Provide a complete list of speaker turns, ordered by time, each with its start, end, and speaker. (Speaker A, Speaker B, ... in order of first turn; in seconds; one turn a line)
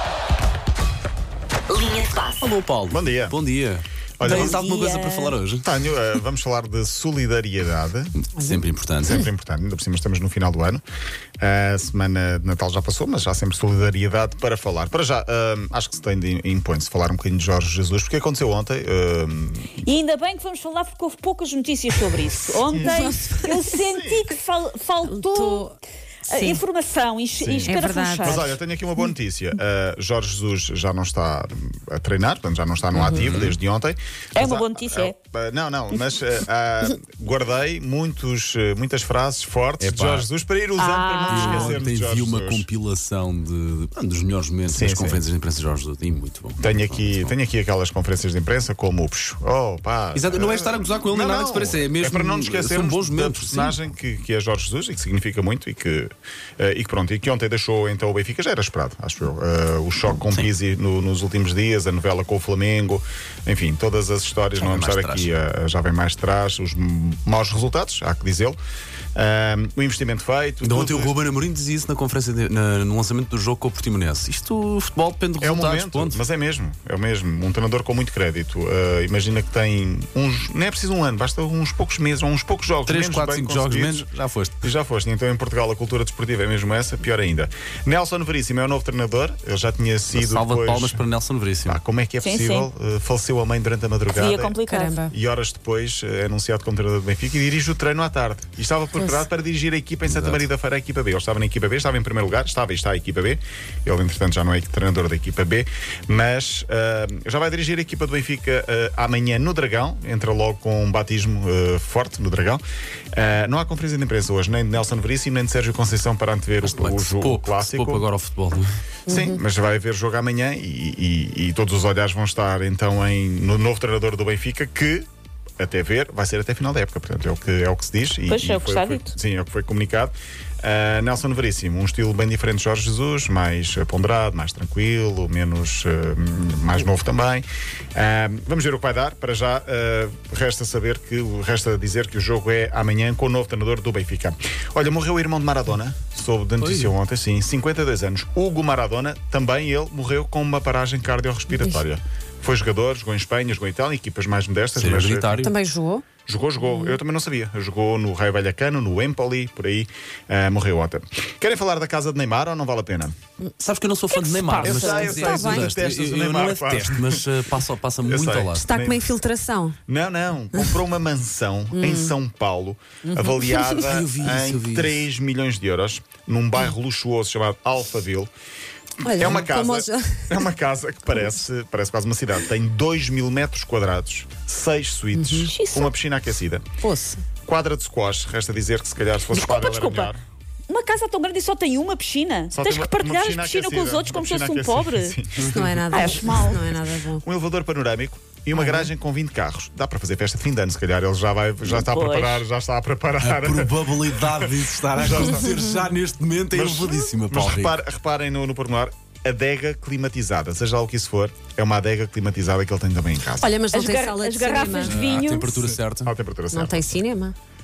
Speaker A: 1.9-5.7
Speaker B: 2.9-3.4
Speaker B: 4.2-4.6
Speaker C: 4.2-5.4
Speaker B: 5.6-8.1
Speaker A: 8.2-9.2
Speaker B: 9.0-10.8
Speaker B: 11.4-19.8
Speaker C: 19.8-25.6
Speaker B: 22.7-23.0
Speaker D: 22.8-23.7
Speaker B: 23.8-24.2
Speaker D: 25.0-25.8
Speaker C: 26.3-28.5
Speaker D: 26.3-26.6
Speaker B: 27.4-42.6
Speaker D: 27.7-28.6
Speaker A: 32.9-33.5
Speaker C: 34.4-35.2
Speaker A: 39.8-40.3
Speaker C: 40.8-41.8
Speaker A: 41.2-47.3
Speaker B: 44.7-45.2
Speaker B: 46.6-68.6
Speaker A: 50.1-53.9
Speaker A: 60.1-60.5
Speaker A: 64.5-65.3
Speaker B: 69.1-71.1
Speaker A: 70.6-76.2
Speaker B: 75.4-84.1
Speaker A: 82.8-84.7
Speaker B: 84.6-91.0
Speaker A: 90.1-91.8
Speaker B: 91.7-118.0
Speaker C: 92.2-92.7
Speaker C: 94.1-95.0
Speaker D: 94.7-95.1
Speaker A: 100.0-100.5
Speaker A: 116.6-118.7
Speaker D: 119.1-119.4
Speaker B: 119.1-125.1
Speaker B: 125.6-155.4
Speaker C: 128.3-129.1
Speaker A: 146.6-146.9
Speaker A: 154.7-155.5
Speaker D: 155.4-156.0
Speaker B: 156.2-163.1
Speaker A: 163.6-168.7
Speaker D: 164.5-165.8
Speaker B: 164.6-167.2
Speaker B: 168.0-169.1
Speaker D: 168.5-169.8
Speaker B: 169.9-178.3
Speaker D: 170.5-170.8
Speaker D: 171.7-172.1
Speaker D: 173.0-173.9
Speaker A: 173.8-175.0
Speaker D: 179.0-180.4
Speaker B: 179.0-186.6
Speaker D: 185.1-185.5
Speaker C: 185.4-185.9
Speaker D: 186.8-187.2
Speaker B: 187.4-190.2
Speaker C: 189.3-190.1
Speaker C: 190.7-195.2
Speaker B: 192.5-195.8
Speaker D: 195.4-197.2
Speaker C: 195.9-196.7
Speaker B: 197.2-205.6
Speaker D: 198.5-198.9
Speaker C: 201.6-202.4
Speaker A: 203.2-207.8
Speaker B: 206.5-213.6
Speaker D: 213.4-215.1
Speaker C: 213.7-215.6
Speaker A: 214.8-216.1
Speaker B: 215.6-217.0
Speaker D: 216.5-217.3